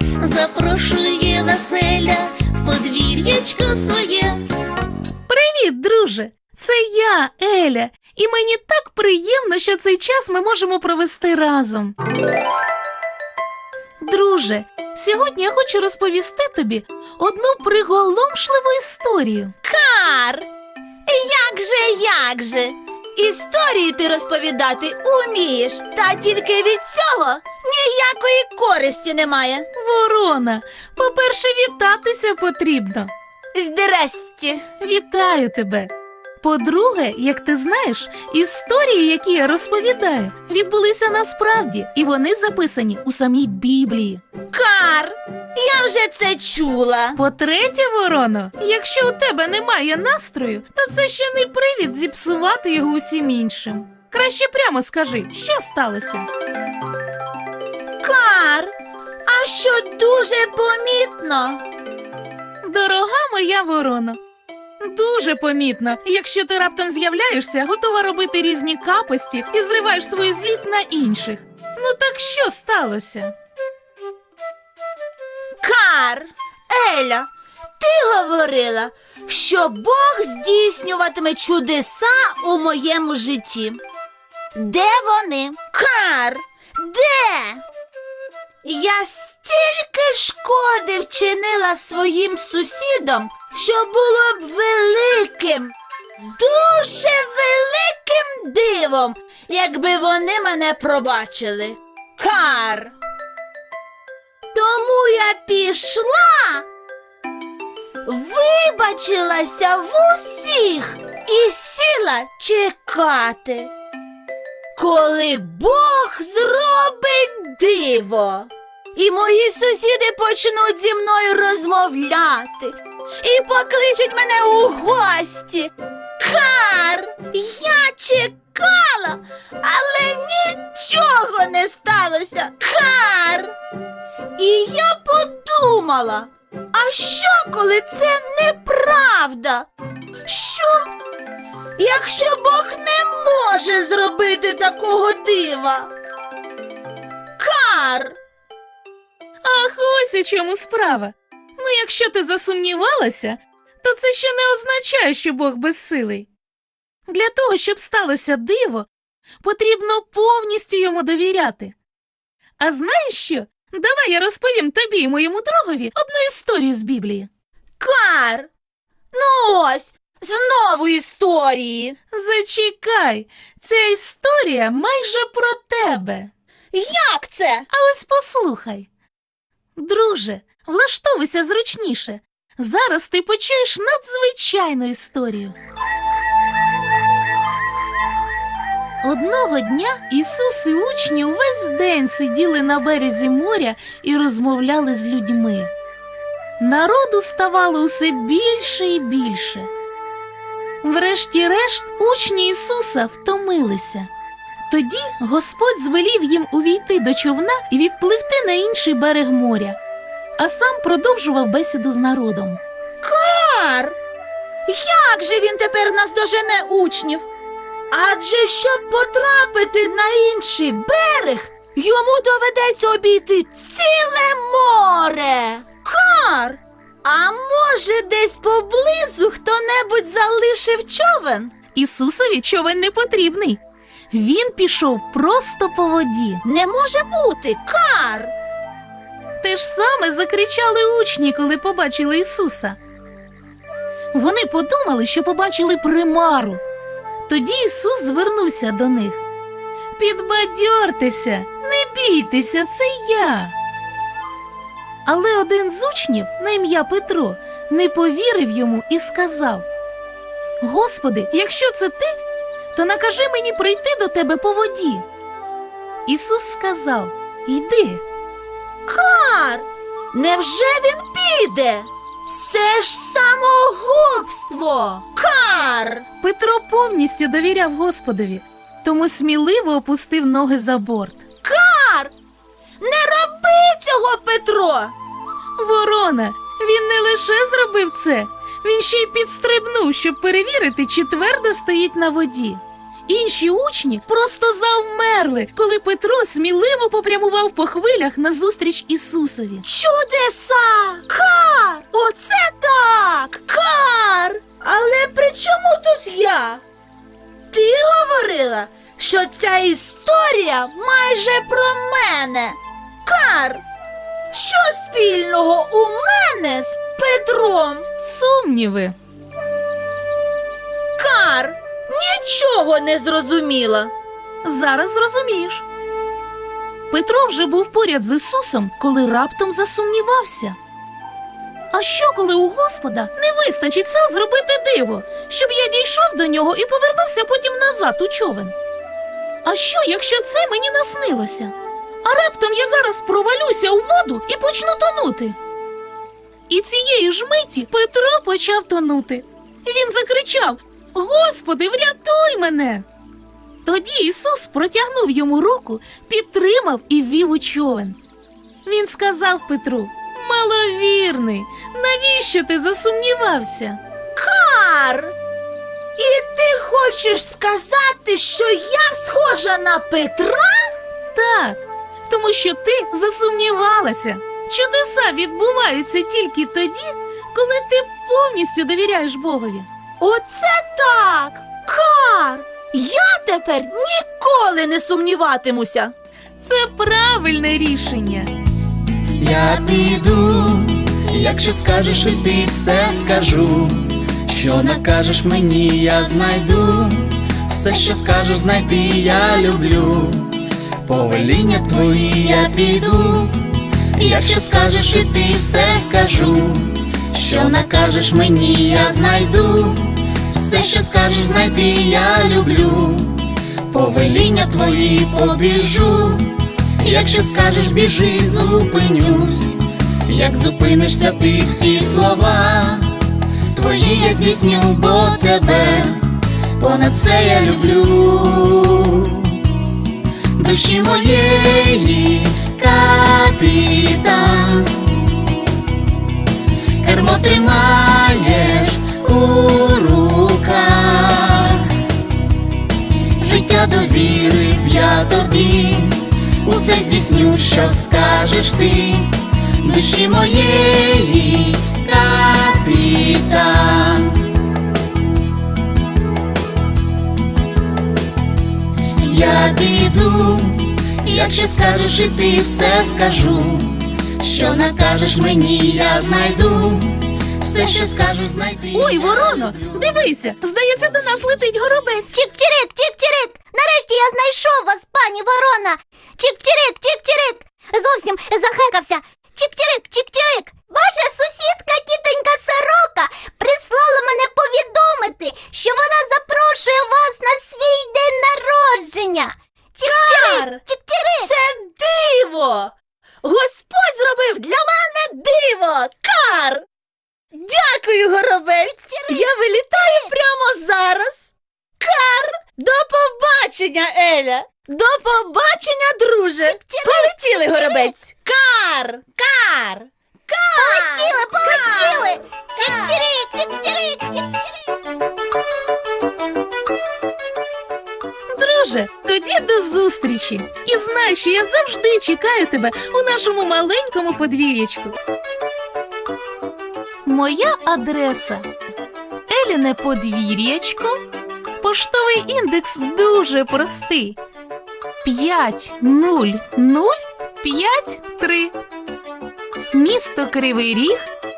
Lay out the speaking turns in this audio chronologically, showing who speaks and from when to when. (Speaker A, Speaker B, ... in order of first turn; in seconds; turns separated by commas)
Speaker A: 0.2-4.4, Speaker A: 5.3-11.9, Speaker A: 14.0-19.5, Speaker B: 19.6-20.4, Speaker B: 21.1-29.7, Speaker A: 29.7-33.1, Speaker B: 33.5-34.6, Speaker A: 34.8-44.2, Speaker B: 44.5-47.2, Speaker A: 47.1-56.3, Speaker B: 58.0-58.7, Speaker B: 59.2-61.6, Speaker A: 62.6-64.2, Speaker A: 64.8-73.3, Speaker B: 75.6-77.3, Speaker B: 77.8-83.8, Speaker B: 84.5-87.6, Speaker B: 88.6-95.7, Speaker B: 96.3-102.9, Speaker B: 104.5-106.6, Speaker B: 108.0-113.7, Speaker B: 114.8-133.5, Speaker B: 134.4-139.7, Speaker B: 140.2-140.9, Speaker B: 141.8-145.9, Speaker B: 147.4-148.2, Speaker A: 149.4-156.3, Speaker A: 157.1-158.9, Speaker A: 159.4-161.7, Speaker A: 162.6-167.3, Speaker B: 167.8-168.5, Speaker B: 169.1-172.0, Speaker A: 172.1-176.3, Speaker B: 176.7-177.7, Speaker A: 177.7-178.9, Speaker A: 179.8-185.5, Speaker A: 189.0-195.7, Speaker A: 196.6-199.7, Speaker A: 200.8-204.1, Speaker A: 204.7-209.8, Speaker A: 210.4-212.6, Speaker B: 213.0-213.9, Speaker B: 214.7-217.2, Speaker B: 217.9-231.5, Speaker A: 231.7-236.4, Speaker B: 236.4-238.3, Speaker A: 239.4-242.8, Speaker A: 244.1-246.6, Speaker A: 247.3-249.2, Speaker A: 250.0-253.5, Speaker A: 255.0-259.6, Speaker A: 260.6-262.1, Speaker A: 262.7-265.1, Speaker A: 266.1-268.0, Speaker B: 268.9-276.0, Speaker A: 276.2-281.2, Speaker B: 281.4-282.1, Speaker B: 282.8-284.9, Speaker A: 285.6-299.6, Speaker B: 299.6-306.6, Speaker B: 307.5-313.6, Speaker B: 314.3-317.9, Speaker A: 318.0-318.9, Speaker B: 321.0-323.9, Speaker A: 324.4-325.6, Speaker A: 326.9-330.6, Speaker A: 331.7-338.5, Speaker A: 339.4-345.4, Speaker A: 346.5-352.9, Speaker A: 353.6-358.0, Speaker A: 358.6-363.8, Speaker B: 364.1-365.1, Speaker B: 366.0-370.7, Speaker A: 371.1-379.7, Speaker B: 380.0-385.9, Speaker A: 386.4-388.3, Speaker C: 389.2-423.0, Speaker C: 423.5-429.5, Speaker C: 430.3-435.2, Speaker C: 436.8-441.9, Speaker C: 443.2-454.3, Speaker C: 459.0-469.8, Speaker A: 468.7-472.2, Speaker D: 472.1-491.3, Speaker B: 489.8-490.6, Speaker B: 491.2-496.6, Speaker B: 497.3-513.1, Speaker D: 498.6-499.3, Speaker D: 499.8-500.1, Speaker D: 506.4-507.9, Speaker D: 510.5-514.5, Speaker A: 518.3-525.0, Speaker A: 527.0-528.5, Speaker A: 529.3-531.0, Speaker A: 531.6-534.2, Speaker A: 535.0-538.5, Speaker A: 539.7-541.1